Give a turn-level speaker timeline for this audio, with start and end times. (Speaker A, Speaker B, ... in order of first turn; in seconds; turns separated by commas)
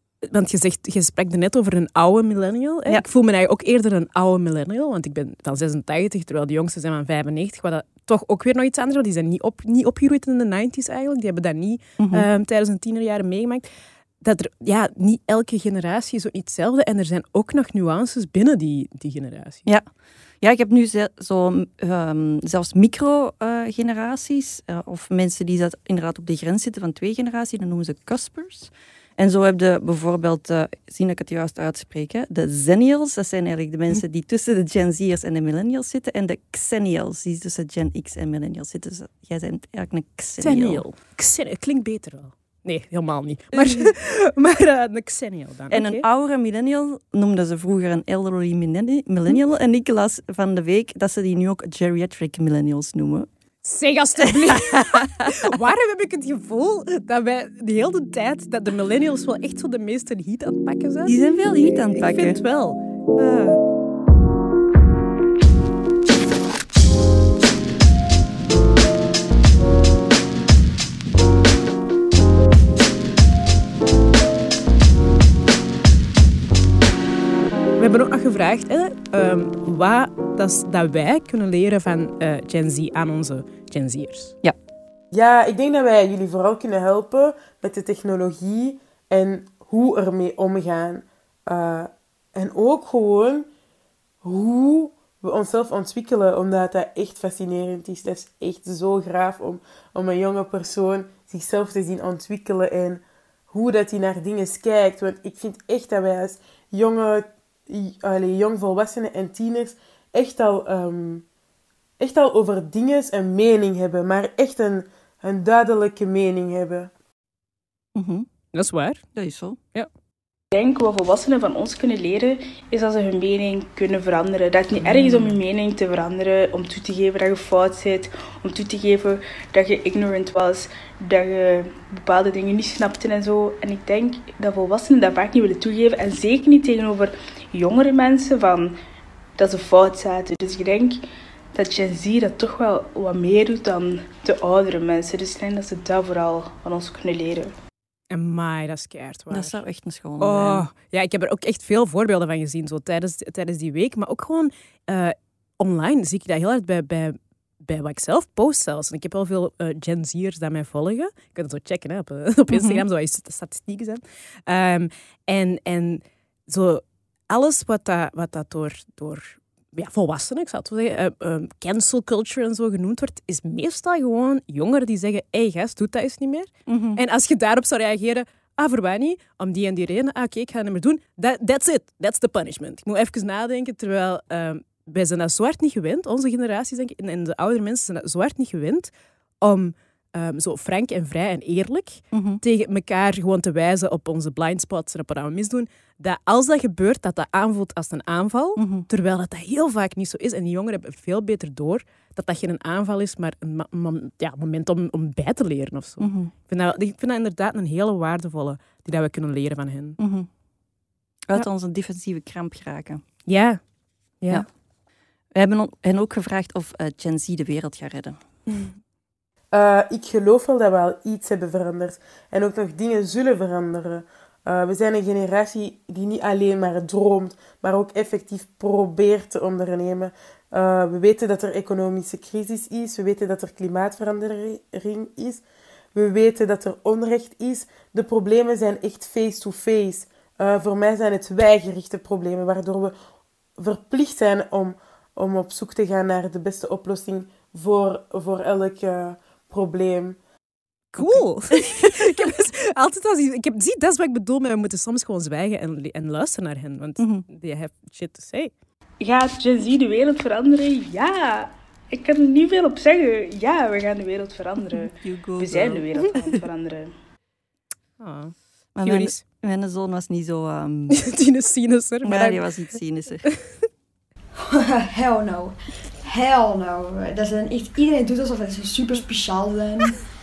Speaker A: 0.2-13.7, Speaker B: 12.0-12.3, Speaker A: 14.2-19.7, Speaker B: 20.4-40.9, Speaker A: 40.4-46.0, Speaker B: 43.5-43.9, Speaker B: 45.7-53.3, Speaker A: 53.6-63.6, Speaker B: 54.2-55.4, Speaker B: 61.1-62.4, Speaker A: 77.8-84.4, Speaker C: 85.1-93.5, Speaker C: 94.2-111.2, Speaker C: 112.0-116.9, Speaker B: 118.0-118.3, Speaker A: 118.5-119.0, Speaker B: 119.2-119.6, Speaker D: 120.5-138.7, Speaker B: 124.8-125.3, Speaker D: 139.4-141.0, Speaker D: 141.5-147.5, Speaker A: 148.1-149.6, Speaker B: 149.3-150.7, Speaker A: 150.2-210.0, Speaker B: 162.5-162.8, Speaker B: 176.7-177.0, Speaker B: 192.1-192.4, Speaker B: 198.6-198.9, Speaker B: 206.0-206.3, Speaker B: 210.0-210.3, Speaker B: 211.3-213.0, Speaker A: 213.3-213.6, Speaker A: 214.2-214.5, Speaker B: 215.3-218.2, Speaker C: 219.5-235.4, Speaker C: 235.9-242.9, Speaker C: 243.6-250.2, Speaker A: 250.9-258.5, Speaker B: 251.0-252.3, Speaker B: 257.0-257.3, Speaker D: 259.0-266.9, Speaker B: 264.7-266.4, Speaker A: 268.0-269.2, Speaker B: 268.8-271.0, Speaker A: 270.9-272.5, Speaker B: 272.0-273.3, Speaker E: 274.4-280.0